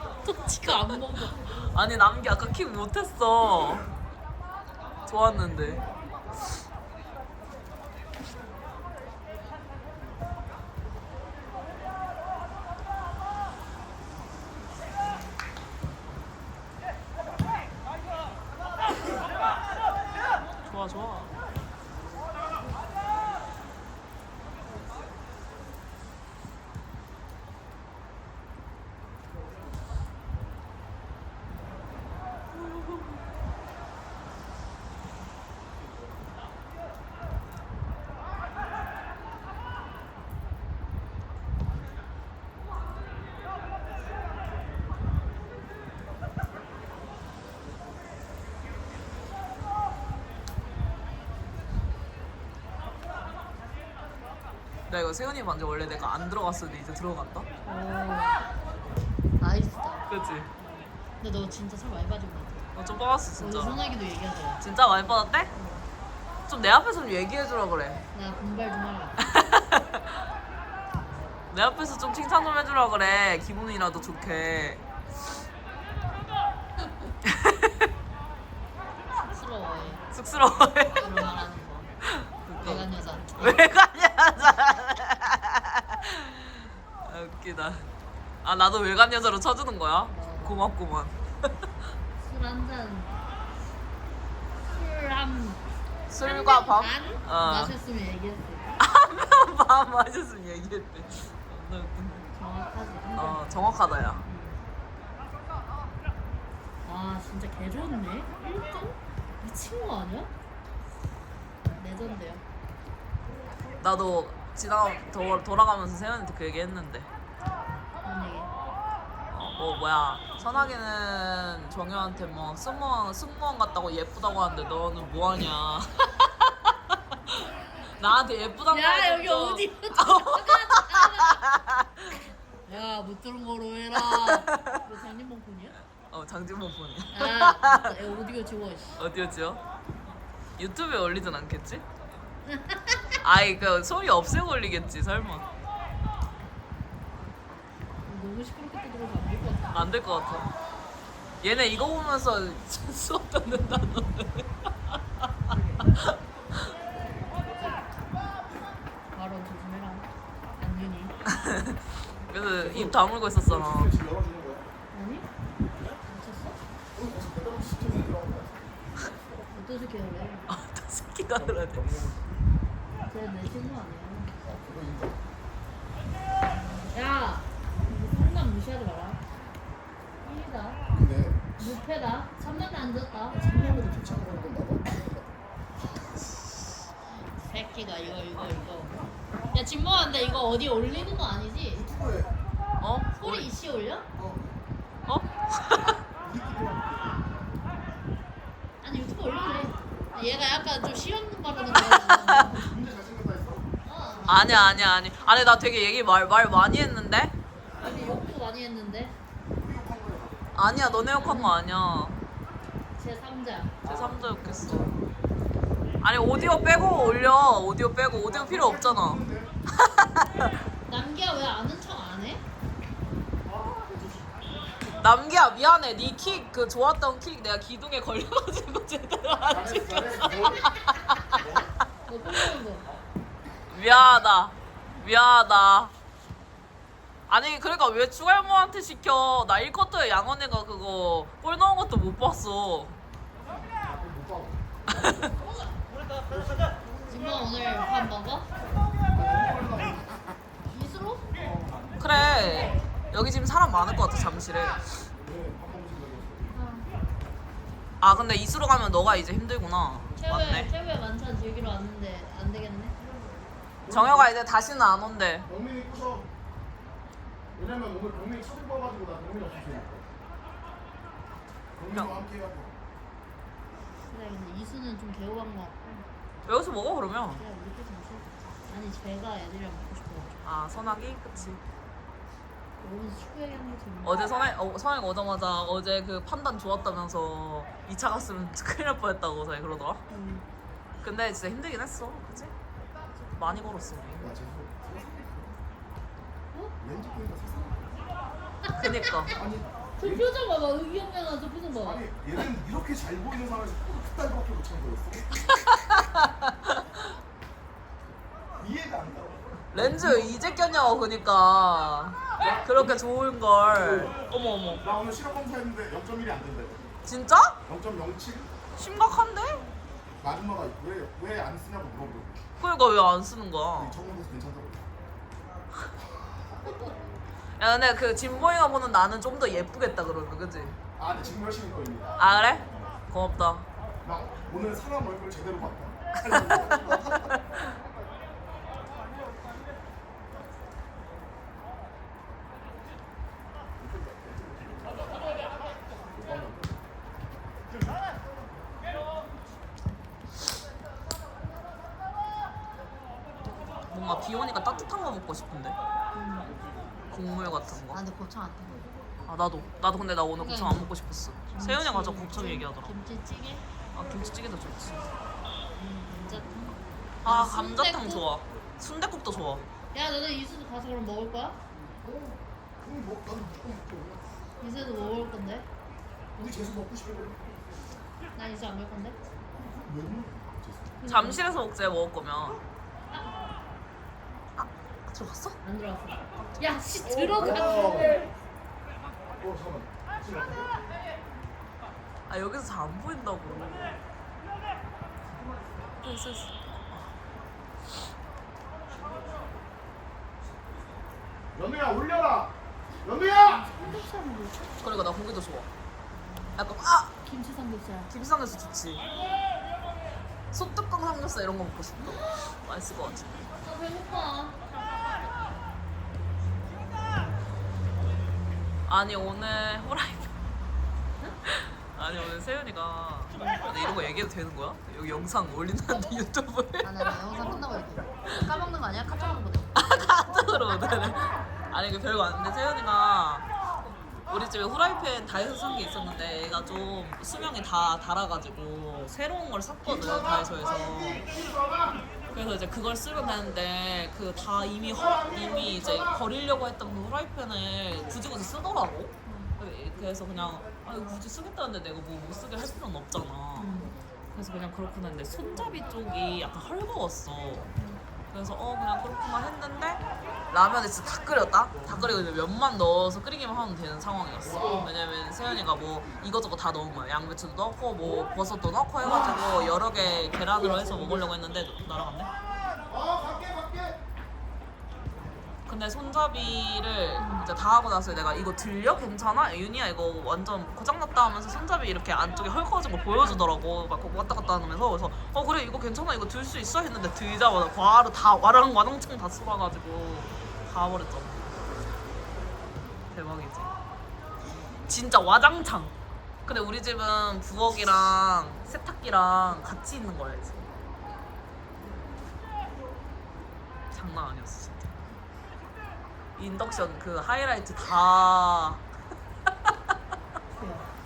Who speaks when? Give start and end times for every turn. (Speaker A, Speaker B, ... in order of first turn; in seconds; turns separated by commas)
Speaker A: 0.2-1.4, Speaker B: 1.2-3.9, Speaker B: 5.0-5.8, Speaker B: 20.6-21.3, Speaker B: 54.9-57.5, Speaker A: 57.6-58.4, Speaker A: 59.4-60.0, Speaker B: 60.1-60.5, Speaker A: 60.6-62.7, Speaker B: 62.7-63.8, Speaker A: 63.4-64.6, Speaker B: 64.6-65.5, Speaker A: 65.5-65.8, Speaker B: 66.5-68.0, Speaker A: 68.1-69.2, Speaker B: 69.2-70.0, Speaker B: 71.5-74.8, Speaker B: 77.2-77.9, Speaker A: 79.1-80.0, Speaker B: 80.1-81.2, Speaker A: 81.0-81.9, Speaker B: 82.0-87.8, Speaker A: 82.6-83.6, Speaker B: 88.4-91.2, Speaker A: 90.1-90.7, Speaker A: 92.2-93.2, Speaker A: 94.6-95.6, Speaker B: 96.1-97.7, Speaker A: 96.2-98.8, Speaker B: 98.8-102.2, Speaker A: 102.3-103.7, Speaker B: 103.2-104.2, Speaker A: 104.2-104.6, Speaker A: 106.8-110.3, Speaker A: 111.7-112.4, Speaker B: 113.8-117.1, Speaker A: 118.0-118.5, Speaker B: 119.3-127.5, Speaker B: 128.0-132.1, Speaker A: 128.7-131.4, Speaker A: 132.7-135.7, Speaker B: 134.1-134.7, Speaker B: 136.1-137.9, Speaker A: 137.1-139.0, Speaker B: 139.0-139.6, Speaker B: 140.6-141.8, Speaker A: 142.4-143.1, Speaker B: 143.2-145.5, Speaker A: 148.0-149.7, Speaker B: 149.7-150.5, Speaker B: 151.4-154.5, Speaker A: 159.1-160.1, Speaker A: 160.6-161.2, Speaker B: 161.3-161.8, Speaker B: 162.3-163.9, Speaker C: 162.6-164.7, Speaker A: 164.9-165.3, Speaker A: 166.1-166.6, Speaker C: 166.9-168.9, Speaker A: 169.5-170.5, Speaker B: 170.5-171.8, Speaker C: 171.4-172.3, Speaker A: 173.1-174.3, Speaker C: 174.4-175.2, Speaker A: 176.5-179.2, Speaker A: 180.2-180.8, Speaker C: 180.9-181.4, Speaker A: 181.6-183.7, Speaker C: 183.5-185.3, Speaker A: 187.1-189.0, Speaker A: 189.5-191.8, Speaker C: 191.7-192.3, Speaker B: 192.8-193.4, Speaker A: 193.2-194.1, Speaker C: 194.2-194.6, Speaker B: 195.1-196.0, Speaker C: 196.2-197.5, Speaker A: 198.8-202.7, Speaker B: 201.9-202.6, Speaker C: 202.5-204.7, Speaker A: 203.8-204.4, Speaker B: 204.3-207.3, Speaker A: 207.8-209.2, Speaker C: 207.8-208.1, Speaker C: 209.6-210.4, Speaker B: 210.5-212.2, Speaker A: 211.2-211.6, Speaker A: 213.0-213.8, Speaker C: 213.8-214.9, Speaker B: 213.8-214.9, Speaker B: 216.0-220.4, Speaker C: 218.2-219.5, Speaker A: 220.9-222.4, Speaker C: 223.4-224.3, Speaker B: 225.0-231.7, Speaker C: 229.5-230.7, Speaker A: 232.1-232.8, Speaker B: 233.7-235.9, Speaker B: 237.3-243.0, Speaker C: 243.6-245.3, Speaker B: 244.9-245.2, Speaker A: 247.1-248.5, Speaker C: 249.1-250.2, Speaker A: 250.7-251.2, Speaker C: 251.3-252.7, Speaker B: 252.0-254.8, Speaker C: 255.2-256.5, Speaker A: 256.5-256.9, Speaker B: 258.0-260.7, Speaker A: 260.2-263.0, Speaker C: 263.8-264.3, Speaker B: 263.9-265.5, Speaker C: 265.5-266.3, Speaker C: 267.5-270.1, Speaker C: 271.7-272.8, Speaker A: 274.0-276.1, Speaker B: 276.4-277.4, Speaker A: 277.4-280.4, Speaker B: 280.4-281.6, Speaker A: 282.8-284.2, Speaker B: 284.0-290.0, Speaker A: 290.1-290.4, Speaker B: 291.0-292.5, Speaker B: 293.4-294.3, Speaker C: 294.1-295.6, Speaker C: 296.8-298.0, Speaker A: 298.6-299.4, Speaker B: 298.8-299.3, Speaker C: 299.3-300.3, Speaker A: 300.0-302.0, Speaker C: 301.8-305.3, Speaker B: 305.9-307.0, Speaker C: 308.6-310.3, Speaker B: 309.7-314.8, Speaker C: 312.4-313.0, Speaker C: 313.6-316.9, Speaker B: 317.0-317.6, Speaker C: 317.6-318.5, Speaker B: 318.8-319.6, Speaker C: 320.2-322.4, Speaker B: 322.6-323.9, Speaker C: 323.8-324.8, Speaker B: 327.6-330.8, Speaker C: 331.0-332.9, Speaker B: 332.2-333.6, Speaker C: 334.0-337.4, Speaker B: 336.2-336.9, Speaker C: 343.8-345.2, Speaker C: 346.1-346.8, Speaker B: 353.9-355.8, Speaker A: 356.1-356.5, Speaker B: 357.1-358.0, Speaker A: 357.9-358.9, Speaker B: 359.3-362.9, Speaker A: 360.4-360.9, Speaker A: 361.5-363.6, Speaker B: 363.9-365.1, Speaker A: 365.8-368.2, Speaker B: 367.2-369.6, Speaker A: 369.9-371.6, Speaker C: 371.9-374.3, Speaker A: 374.6-375.7, Speaker C: 376.4-377.4, Speaker A: 378.3-379.2, Speaker C: 379.5-380.9, Speaker A: 381.0-381.5, Speaker B: 381.1-382.6, Speaker A: 383.1-383.4, Speaker B: 384.6-385.6, Speaker A: 385.6-388.3, Speaker C: 387.0-388.3, Speaker C: 389.4-390.8, Speaker B: 392.3-393.9, Speaker B: 396.0-397.1, Speaker C: 401.5-403.8, Speaker A: 403.2-404.8, Speaker B: 404.8-405.7, Speaker B: 406.6-407.1, Speaker A: 407.2-408.1, Speaker B: 408.1-409.1, Speaker B: 410.5-413.3, Speaker A: 412.0-412.5, Speaker A: 413.6-414.6, Speaker B: 418.9-420.3, Speaker B: 421.4-426.9, Speaker A: 426.8-429.7, Speaker B: 429.7-433.5, Speaker B: 434.3-441.2, Speaker C: 439.8-442.1, Speaker B: 442.3-453.7, Speaker C: 444.9-446.2, Speaker A: 449.2-449.5, Speaker A: 453.6-453.9, Speaker B: 454.3-457.7, Speaker A: 457.8-458.0, Speaker B: 458.3-472.3, Speaker C: 464.4-464.9, Speaker C: 469.0-471.3, Speaker C: 472.9-474.0, Speaker B: 475.7-491.5, Speaker A: 477.2-477.5, Speaker A: 483.2-483.4, Speaker B: 493.1-493.7, Speaker B: 494.9-495.9, Speaker B: 496.4-500.7, Speaker B: 503.9-504.9, Speaker B: 506.4-508.8, Speaker A: 510.5-510.9